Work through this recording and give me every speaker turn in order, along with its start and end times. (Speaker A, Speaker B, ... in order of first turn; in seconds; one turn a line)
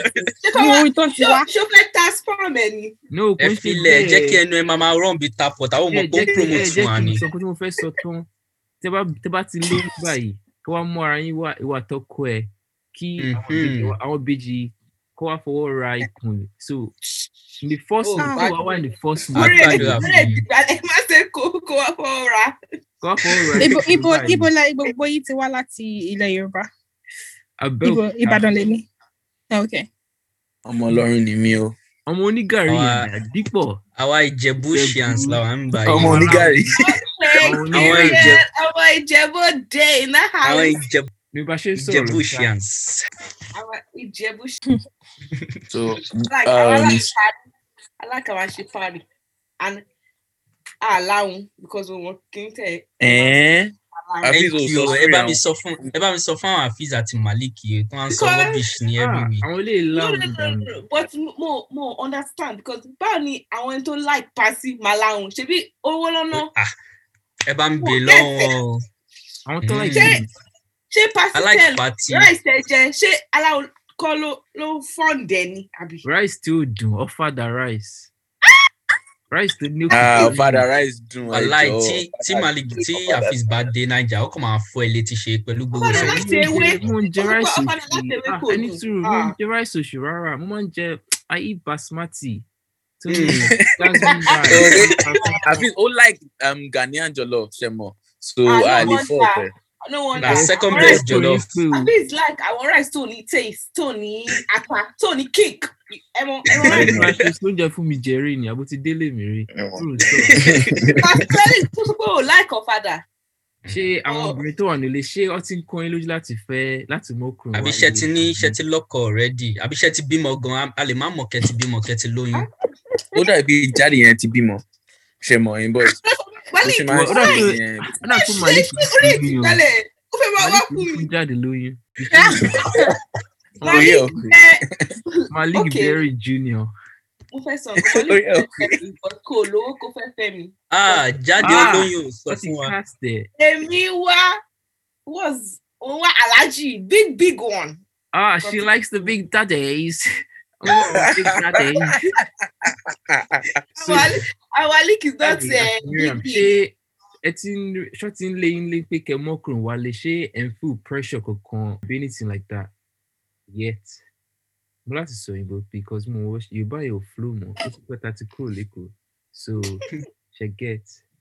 Speaker A: 0.4-2.9
Speaker B: 0.5-1.5
Speaker C: 3.1-4.4
Speaker D: 3.4-7.2
Speaker C: 5.9-8.3
Speaker A: 6.3-6.7
Speaker C: 8.8-16.9
Speaker D: 13.2-13.9
Speaker C: 17.6-20.1
Speaker A: 18.0-22.6
Speaker B: 18.2-18.5
Speaker D: 19.3-20.4
Speaker C: 23.0-24.5
Speaker B: 23.6-26.7
Speaker C: 27.6-28.4
Speaker B: 27.8-28.9
Speaker B: 29.5-29.9
Speaker E: 30.6-31.8
Speaker C: 32.1-33.8
Speaker D: 32.7-33.1
Speaker D: 34.0-36.5
Speaker C: 34.6-36.6
Speaker E: 35.8-36.8
Speaker A: 36.8-40.8
Speaker C: 37.4-38.3
Speaker D: 37.7-38.4
Speaker D: 40.4-41.1
Speaker C: 41.3-42.5
Speaker D: 41.8-43.0
Speaker A: 43.5-44.6
Speaker E: 45.7-47.1
Speaker A: 46.3-47.3
Speaker A: 48.0-49.0
Speaker A: 49.6-49.9
Speaker A: 50.8-53.4
Speaker E: 53.0-55.4
Speaker A: 54.0-55.0
Speaker D: 54.3-59.4
Speaker A: 58.1-58.6
Speaker C: 59.0-60.8
Speaker A: 59.9-66.5
Speaker D: 66.3-66.7
Speaker D: 67.5-68.8
Speaker A: 67.8-68.5
Speaker C: 69.5-70.3
Speaker D: 69.6-70.2
Speaker A: 69.9-70.2
Speaker A: 70.9-76.0
Speaker D: 71.3-72.3
Speaker C: 76.0-78.1
Speaker C: 79.3-80.7
Speaker E: 79.9-83.3
Speaker D: 81.3-86.8
Speaker A: 85.7-89.3
Speaker C: 85.9-92.5
Speaker C: 93.0-95.5
Speaker D: 93.1-93.5
Speaker E: 93.5-99.5
Speaker A: 94.3-95.6
Speaker A: 98.5-101.1
Speaker D: 100.2-101.5
Speaker C: 100.2-101.9
Speaker A: 101.7-107.1
Speaker E: 106.5-107.2
Speaker C: 106.7-110.5
Speaker E: 109.5-111.1
Speaker A: 111.0-113.0
Speaker C: 113.7-118.6
Speaker A: 114.1-114.4
Speaker D: 117.5-122.5
Speaker E: 123.2-124.6
Speaker E: 125.2-126.0
Speaker A: 125.9-127.5
Speaker E: 126.6-127.9
Speaker C: 126.9-129.6
Speaker A: 128.1-131.1
Speaker C: 130.4-132.6
Speaker B: 132.1-132.9
Speaker C: 133.6-134.1
Speaker A: 133.6-136.0
Speaker E: 133.7-134.4
Speaker C: 135.3-136.7
Speaker A: 137.3-141.9
Speaker E: 137.8-138.8
Speaker D: 140.7-142.8
Speaker C: 141.4-143.3
Speaker A: 143.4-144.4
Speaker A: 145.1-147.8
Speaker C: 148.1-150.1
Speaker A: 148.4-149.1
Speaker C: 150.6-152.1
Speaker E: 150.7-151.7
Speaker E: 152.6-153.5
Speaker A: 153.8-156.5
Speaker C: 155.2-162.7
Speaker C: 163.5-164.0
Speaker C: 164.9-171.0